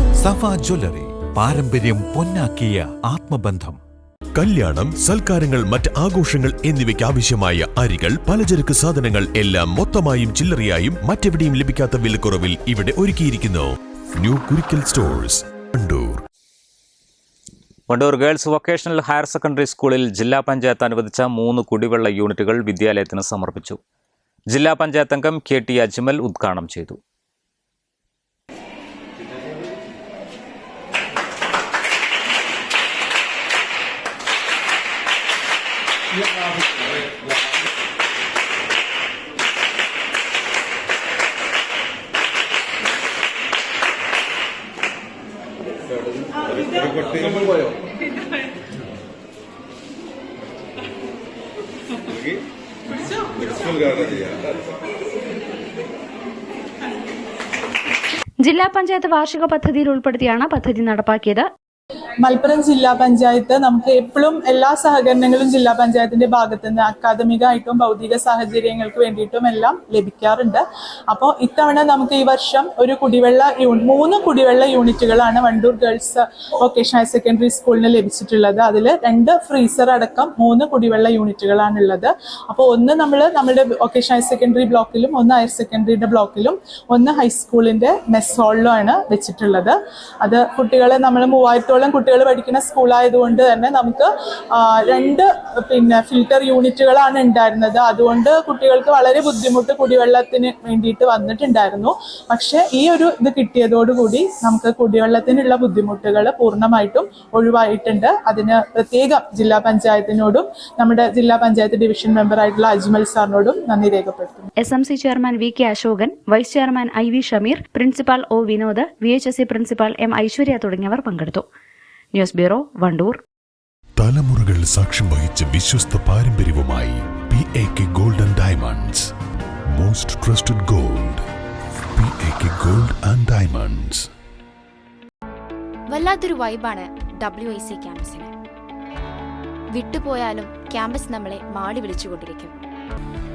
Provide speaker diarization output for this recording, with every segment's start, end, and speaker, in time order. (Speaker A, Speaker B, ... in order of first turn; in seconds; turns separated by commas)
Speaker A: 0.2-3.8, Speaker B: 4.4-16.2, Speaker C: 17.9-23.8, Speaker C: 24.5-27.0, Speaker D: 58.4-61.5, Speaker E: 62.2-114.5, Speaker D: 114.6-121.4, Speaker D: 122.1-123.2, Speaker B: 124.0-129.1, Speaker B: 129.8-131.2, Speaker B: 131.9-134.1, Speaker F: 135.9-138.3, Speaker F: 139.7-142.6